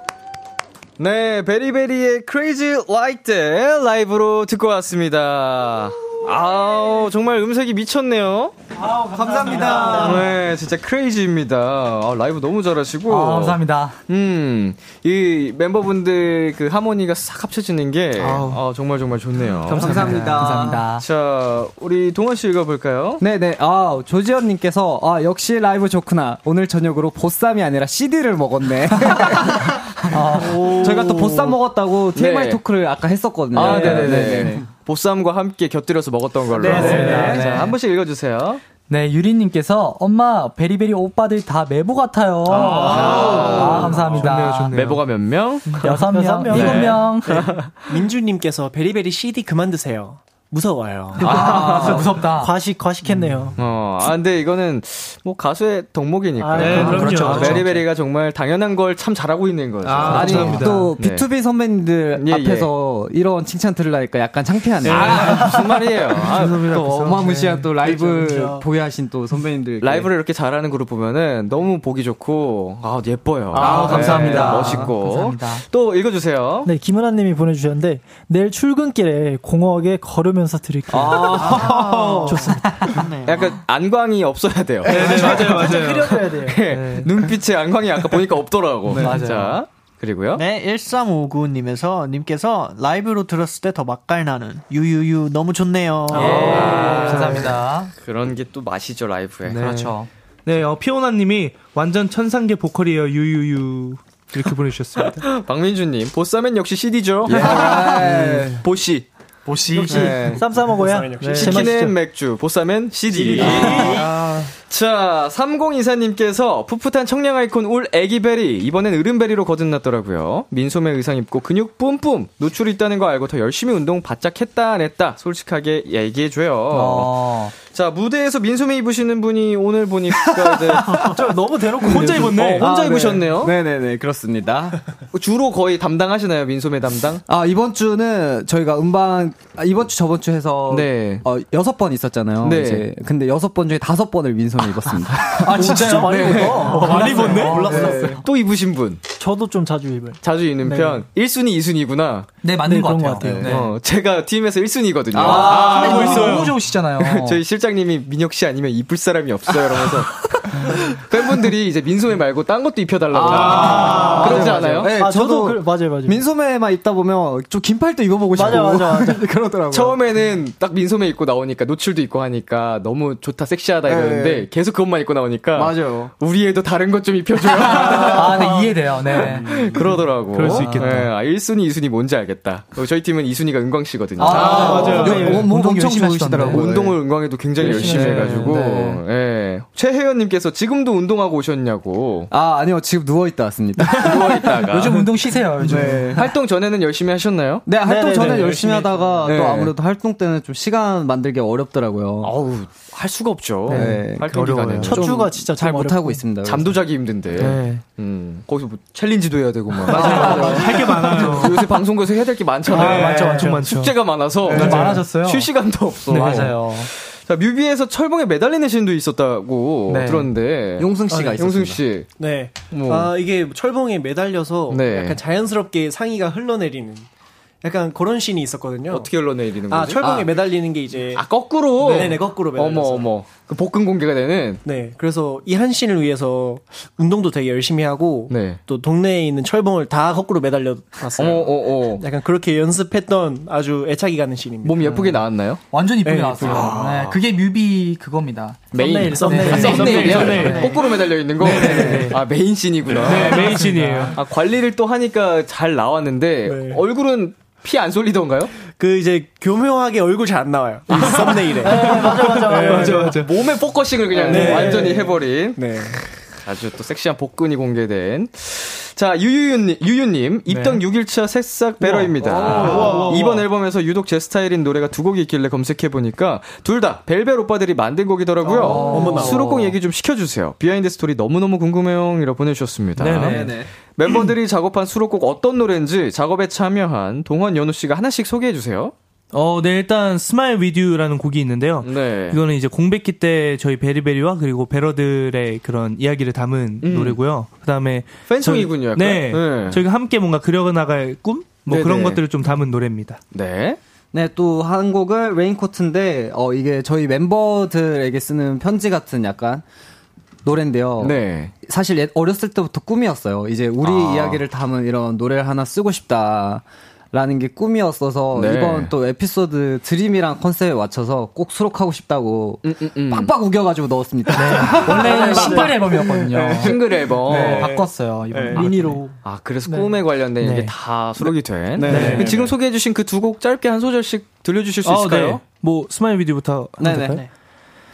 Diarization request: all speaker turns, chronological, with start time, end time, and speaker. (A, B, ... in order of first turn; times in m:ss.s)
0:01.0-0:08.5 A
0:08.8-0:10.3 B
0:09.1-0:10.2 C
0:09.6-0:09.9 D
0:09.7-0:23.2 A
0:13.1-0:14.0 E
0:18.2-0:18.6 F
0:19.7-0:20.8 C
0:19.7-0:21.0 E
0:23.2-0:34.7 C
0:29.0-0:29.4 E
0:30.1-0:30.8 E
0:30.3-0:31.6 A
0:32.1-0:32.6 A
0:33.5-0:38.6 A
0:33.6-0:34.4 E
0:36.6-0:37.6 C
0:36.6-0:37.8 E
0:36.9-0:37.2 F
0:38.9-0:44.9 E
0:42.5-0:45.9 A
0:42.8-0:44.0 D
0:42.8-0:45.0 F
0:42.8-0:43.4 C
0:42.9-0:43.4 B
0:45.6-0:45.9 F
0:45.8-0:47.6 E
0:45.8-0:47.1 B
0:46.5-0:47.4 A
0:47.2-0:51.4 D
0:51.2-0:52.0 A
0:51.2-0:52.5 E
0:51.4-0:53.6 B
0:53.2-0:53.5 F
0:53.6-1:01.3 A
0:56.4-0:57.3 B
0:56.6-0:57.7 F
0:56.6-0:57.8 E
0:59.8-1:01.0 F
1:00.0-1:05.8 C
1:02.1-1:02.7 A
1:04.8-1:07.7 F
1:04.8-1:06.7 A
1:06.6-1:10.1 C
1:07.6-1:08.6 B
1:09.8-1:16.7 A
1:13.5-1:14.8 G
1:13.5-1:15.6 E
1:13.6-1:14.7 F
1:16.6-1:22.9 B
1:20.9-1:21.8 C
1:20.9-1:21.9 E
1:21.2-1:23.6 G
1:23.2-1:25.8 A
1:24.9-1:27.2 F
1:24.9-1:25.5 G
1:24.9-1:26.6 B
1:26.4-1:30.4 A
1:29.0-1:29.6 E
1:30.3-1:37.2 G
1:36.1-1:37.9 E
1:36.1-1:37.5 F
1:36.2-1:39.7 A
1:36.2-1:36.6 B
1:39.4-1:45.3 F
1:39.5-1:40.1 E
1:45.2-1:49.1 A
1:47.3-1:48.6 C
1:49.4-1:50.4 E
1:49.7-1:51.9 B
1:49.8-1:50.4 A
1:50.0-1:51.7 D
1:51.2-1:51.6 F
1:51.4-2:11.1 A
1:53.1-1:54.4 F
1:53.1-1:54.5 D
1:53.4-1:54.1 B
2:06.7-2:07.5 E
2:10.3-2:11.2 C
2:11.0-2:12.6 B
2:11.8-2:12.7 F
2:12.0-2:14.8 C
2:12.6-2:13.5 A
2:15.1-2:17.2 A
2:17.3-2:28.2 C
2:20.7-2:21.2 A
2:22.4-2:22.9 A
2:25.2-2:28.2 E
2:25.5-2:28.0 B
2:26.0-2:27.1 A
2:26.8-2:27.9 F
2:26.9-2:28.1 D
2:28.2-2:29.0 A
2:29.2-2:31.0 B
2:30.2-2:32.3 A
2:32.4-2:33.7 E
2:32.6-2:33.5 B
2:33.2-2:44.9 A
2:35.1-2:35.9 C
2:35.2-2:37.4 E
2:35.4-2:36.5 F
2:39.7-2:40.4 C
2:43.1-2:50.0 C
2:43.3-2:44.3 F
2:44.0-2:44.4 B
2:44.9-2:46.2 B
2:48.3-2:49.2 B
2:49.7-3:05.4 A
2:53.8-2:54.5 C
2:55.5-2:56.1 C
2:57.5-2:59.8 E
3:00.3-3:01.1 F
3:00.5-3:01.1 E
3:04.2-3:06.7 E
3:04.2-3:07.0 C
3:04.3-3:05.5 F
3:06.5-3:12.3 A
3:07.6-3:08.6 C
3:07.6-3:09.0 E
3:08.0-3:08.4 F
3:12.3-3:14.6 C
3:13.9-3:15.1 A
3:14.1-3:16.3 E
3:15.6-3:16.3 C
3:15.7-3:17.6 A
3:17.6-3:22.3 C
3:17.8-3:19.1 B
3:19.2-3:19.7 A
3:22.2-3:25.0 A
3:23.7-3:25.0 F
3:23.7-3:26.8 C
3:24.8-3:26.2 B
3:26.4-3:42.1 A
3:27.4-3:27.8 F
3:29.9-3:31.6 F
3:30.0-3:30.7 C
3:30.0-3:31.4 G
3:30.1-3:30.4 E
3:32.7-3:33.6 E
3:32.7-3:35.0 F
3:33.0-3:33.4 B
3:34.4-3:35.5 E
3:36.1-3:36.9 E
3:36.1-3:36.5 F
3:39.9-3:40.3 E
3:40.8-3:41.8 C
3:41.1-3:41.4 D
3:42.2-3:47.1 D
3:42.7-3:43.1 A
3:44.7-3:45.2 A
3:47.6-3:51.2 D
3:48.9-3:50.0 A
3:50.0-3:50.3 C
3:51.1-3:54.6 A
3:51.8-3:53.1 D
3:54.6-4:05.2 D
3:58.3-3:58.6 A
4:01.2-4:02.0 A
4:04.6-4:05.6 A
4:05.7-4:10.7 E
4:06.0-4:06.8 D
4:06.4-4:07.2 A
4:08.7-4:13.6 A
4:08.7-4:10.6 B
4:08.8-4:10.9 D
4:09.3-4:12.2 F
4:11.5-4:12.1 E
4:11.6-4:11.9 D
4:11.6-4:12.1 C
4:12.9-4:14.2 F
4:14.1-4:18.5 A
4:16.4-4:16.8 D
4:18.7-4:23.2 D
4:20.9-4:23.5 F
4:21.6-4:23.2 B
4:23.0-4:48.9 A
4:24.1-4:26.0 D
4:24.3-4:24.7 F
4:24.3-4:24.9 B
4:30.5-4:30.8 F
4:32.1-4:33.1 C
4:32.4-4:32.9 E
4:32.5-4:33.4 F
4:32.6-4:33.1 D
4:38.4-4:39.6 E
4:38.6-4:39.5 D
4:38.8-4:39.4 C
4:43.0-4:43.6 F
4:43.1-4:43.7 C
4:49.3-5:03.2 F
4:51.8-4:52.4 A
4:56.8-4:57.2 A
4:58.3-4:59.8 A
5:01.6-5:02.2 A
5:03.3-5:03.8 A
5:04.1-5:09.6 C
5:10.4-5:25.8 C
5:11.0-5:11.5 A
5:13.8-5:14.4 A
5:18.3-5:18.9 A
5:22.6-5:23.4 A
5:24.4-5:24.8 F
5:24.5-5:29.0 E
5:24.8-5:25.8 D
5:24.9-5:26.3 B
5:26.6-5:27.8 A
5:27.3-5:27.8 D
5:28.3-5:28.6 D
5:28.5-5:35.4 A
5:28.8-5:29.9 B
5:30.4-5:30.7 E
5:31.7-5:32.3 C
5:31.8-5:32.4 F
5:31.9-5:32.3 E
5:31.9-5:32.5 D
5:34.8-5:37.2 F
5:36.8-5:37.2 C